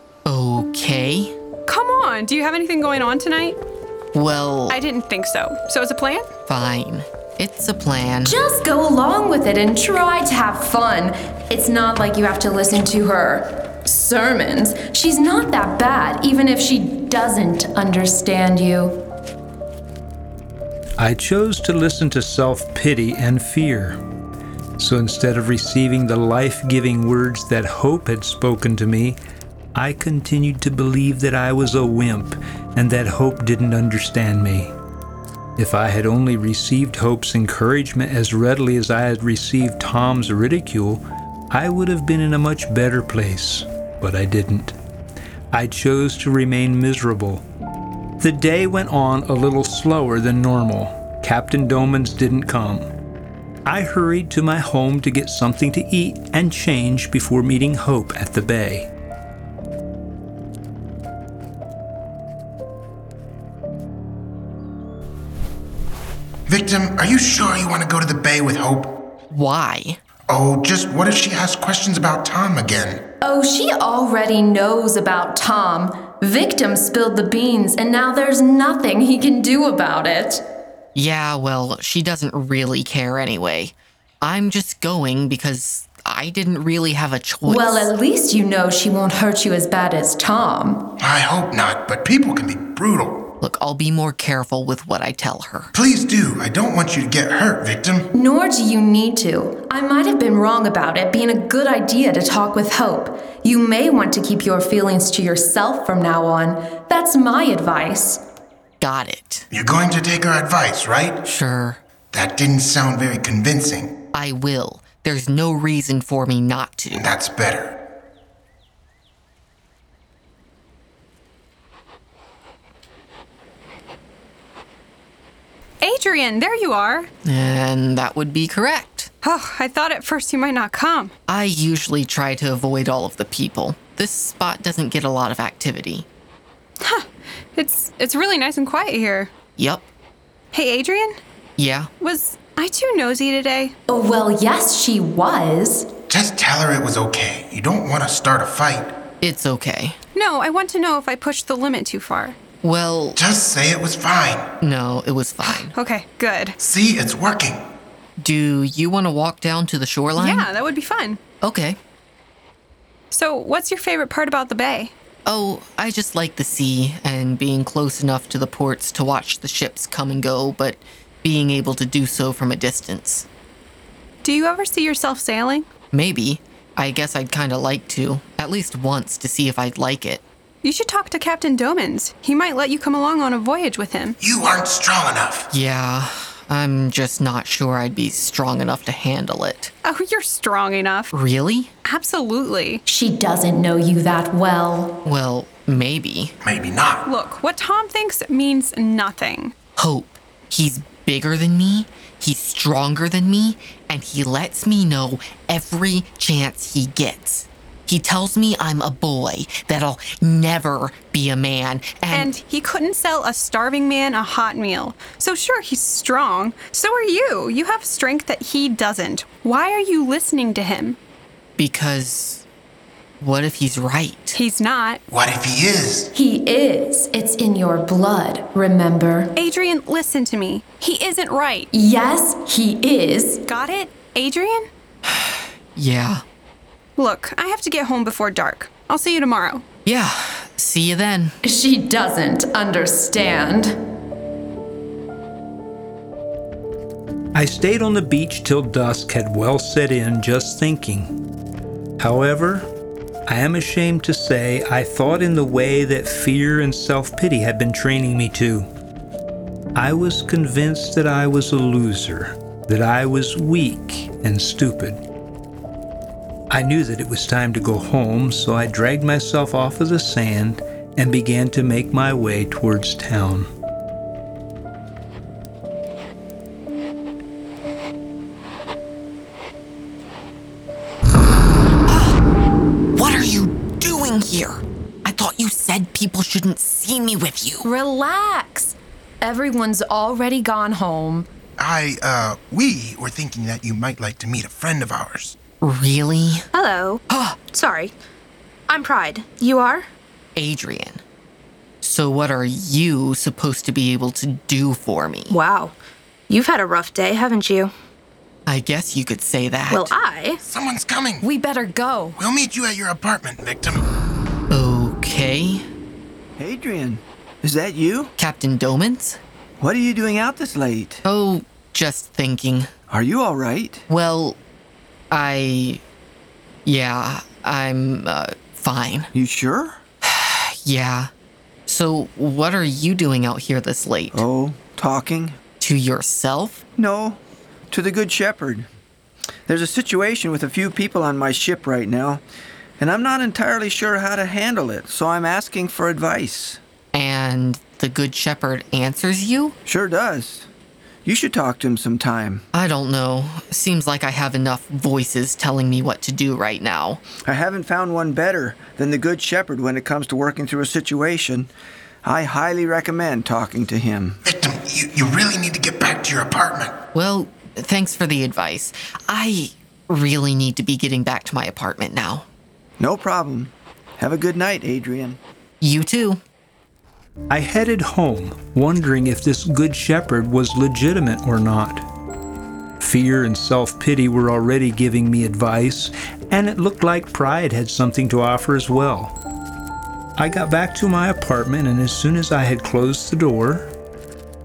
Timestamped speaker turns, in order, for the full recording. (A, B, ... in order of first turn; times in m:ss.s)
0:00.2-0:01.3 A
0:01.6-0:03.6 B
0:04.1-0:04.8 A
0:04.7-0:06.2 B
0:06.5-0:08.4 A
0:08.2-0:19.0 C
0:21.0-0:24.0 D
0:24.8-0:29.2 D
0:29.7-0:34.7 D
0:35.6-0:44.7 D
0:45.5-0:47.4 D
0:48.2-0:52.9 D
0:53.6-0:58.9 D
1:06.5-1:06.9 E
1:07.8-1:08.8 E
1:09.3-1:10.0 A
1:10.3-1:13.0 E
1:13.2-1:20.4 C
1:20.9-1:27.9 A
1:27.4-1:30.9 C
1:31.1-1:33.1 E
1:33.4-1:35.7 A
1:35.8-1:37.1 E
1:38.1-1:48.2 C
1:48.8-1:49.5 A
1:49.5-1:50.9 E
1:51.2-1:51.8 A
1:52.1-1:53.8 E
1:54.1-1:57.1 A
1:57.2-1:57.7 E
2:05.8-2:07.1 B
2:07.2-2:09.1 A
2:09.2-2:11.1 B
2:11.3-2:16.1 A
2:16.8-2:19.3 B
2:19.6-2:19.8 A
2:20.5-2:21.2 B
2:21.6-2:21.9 A
2:22.0-2:23.8 B
2:23.9-2:25.9 C
2:26.1-2:28.9 E
2:29.2-2:30.0 A
2:30.1-2:32.4 B
2:32.6-2:33.2 A
2:33.3-2:34.3 E
2:34.6-2:35.7 A
2:35.4-2:36.6 B
2:36.7-2:37.5 E
2:38.2-2:40.5 A
2:40.2-2:41.2 B
2:41.4-2:41.8 A
2:43.1-2:44.9 B
2:45.2-2:53.3 A
2:54.2-2:55.7 B
2:55.9-3:00.2 A
3:00.6-3:04.2 B
3:04.2-3:05.5 E
3:05.5-3:09.7 A
3:09.8-3:11.1 B
3:11.1-3:11.7 A
3:11.8-3:12.8 B
3:12.8-3:14.9 C
3:15.0-3:16.3 A
3:16.4-3:16.9 E
3:17.0-3:19.5 B
3:19.8-3:32.3 A
3:32.1-3:41.0 B
3:41.6-3:42.4 A
3:43.2-3:44.4 A
3:44.3-3:45.0 B
3:45.1-3:46.1 E
3:46.1-3:49.3 C
3:49.4-3:51.7 B
3:51.7-3:53.4 C
3:53.4-3:54.7 B
3:55.1-3:56.2 A
3:57.0-3:59.6 B
3:59.8-4:01.4 A
4:01.4-4:03.7 C
4:07.3-4:11.1 D
4:12.0-4:12.6 D
4:13.3-4:18.6 D
4:19.7-4:25.0 D
4:26.5-4:33.5 D
4:41.9-4:42.2 A
4:42.9-4:47.7 A
4:47.6-4:51.3 C
4:51.6-4:55.3 E
4:55.6-4:56.4 A
4:56.5-4:57.9 F
4:57.1-4:57.4 A
4:58.7-4:59.8 F
5:00.4-5:01.0 A
5:01.8-5:05.3 A
5:05.3-5:05.8 F
5:06.3-5:07.7 F
5:08.5-5:10.0 A
5:09.7-5:10.4 F
5:10.5-5:11.2 E
5:11.2-5:12.2 C
5:12.2-5:13.8 E
5:14.5-5:15.6 A
5:16.4-5:18.1 G
5:18.2-5:19.2 A
5:19.6-5:21.0 G
5:21.0-5:22.7 A
5:22.9-5:23.8 G
5:23.9-5:24.4 A
5:25.1-5:25.8 A
5:26.6-5:29.1 A
5:29.1-5:29.8 G
5:30.0-5:31.1 A
5:31.7-5:34.2 A
5:34.1-5:35.4 G
5:35.6-5:36.6 A
5:36.8-5:37.2 G
5:37.7-5:38.7 G
5:39.5-5:42.2 G
5:42.8-5:46.6 G
5:46.9-5:49.5 A
5:49.6-5:50.5 G
5:51.0-5:52.4 G
5:52.5-5:57.0 A
5:57.2-6:01.5 G
6:02.0-6:04.2 G
6:04.4-6:06.6 E
6:06.9-6:12.2 A
6:12.8-6:15.2 G
6:15.6-6:16.2 A
6:17.3-6:21.8 D
6:22.8-6:29.1 D
6:30.2-6:33.7 D